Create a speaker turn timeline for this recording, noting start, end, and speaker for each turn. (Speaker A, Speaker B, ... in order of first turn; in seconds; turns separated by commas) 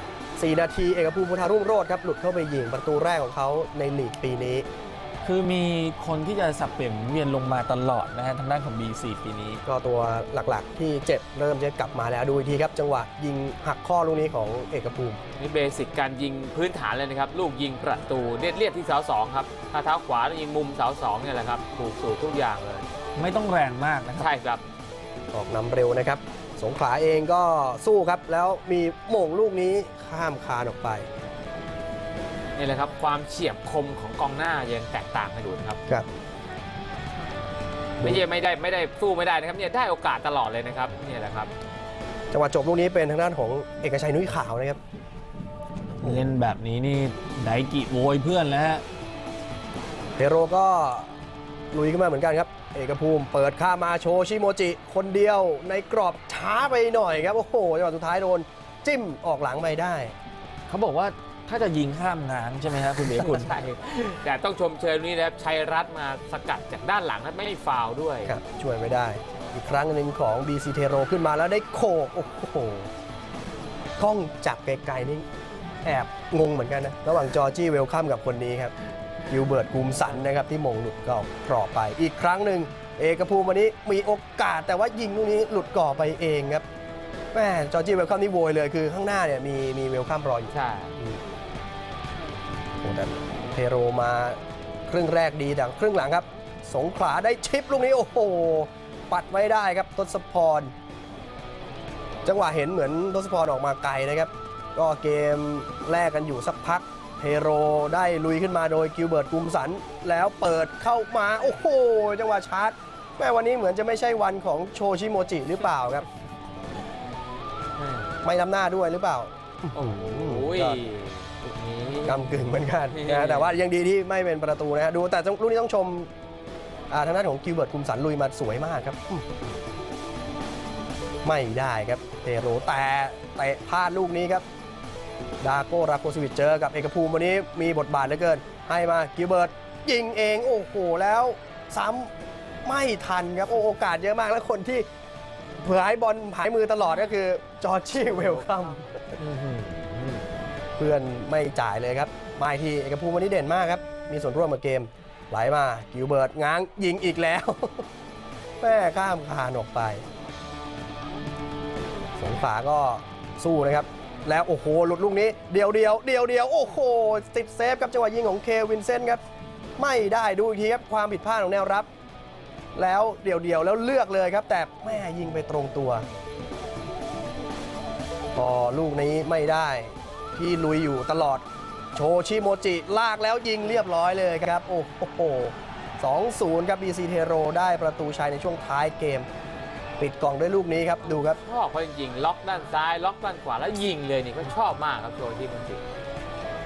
Speaker A: 0.4-4.7, Speaker B: 5.2-9.6, Speaker A: 9.7-15.2, Speaker C: 15.4-22.9, Speaker B: 23.2-24.3, Speaker C: 24.1-24.6, Speaker A: 25.3-31.1, Speaker C: 32.6-35.8, Speaker C: 38.0-41.5, Speaker A: 42.3-44.8, Speaker B: 46.0-48.8, Speaker A: 50.2-51.1, Speaker A: 51.7-60.1, Speaker B: 60.7-63.5, Speaker C: 63.0-68.3, Speaker A: 68.3-72.9, Speaker A: 74.0-75.3, Speaker A: 75.8-78.7, Speaker A: 79.3-86.7, Speaker A: 87.3-91.2, Speaker C: 90.5-91.0, Speaker A: 92.8-100.7, Speaker A: 102.2-116.1, Speaker C: 117.8-118.1, Speaker A: 118.2-120.8, Speaker C: 119.8-122.4, Speaker A: 122.0-126.1, Speaker C: 122.9-123.6, Speaker A: 126.9-129.3, Speaker A: 131.2-134.4, Speaker A: 135.4-142.1, Speaker A: 142.7-144.9, Speaker A: 145.6-149.1, Speaker C: 149.2-150.3, Speaker A: 150.8-157.9, Speaker A: 158.6-160.1, Speaker A: 162.2-169.2, Speaker A: 169.8-171.9, Speaker A: 172.8-176.1, Speaker A: 178.3-189.3, Speaker A: 190.0-191.4, Speaker C: 191.1-195.8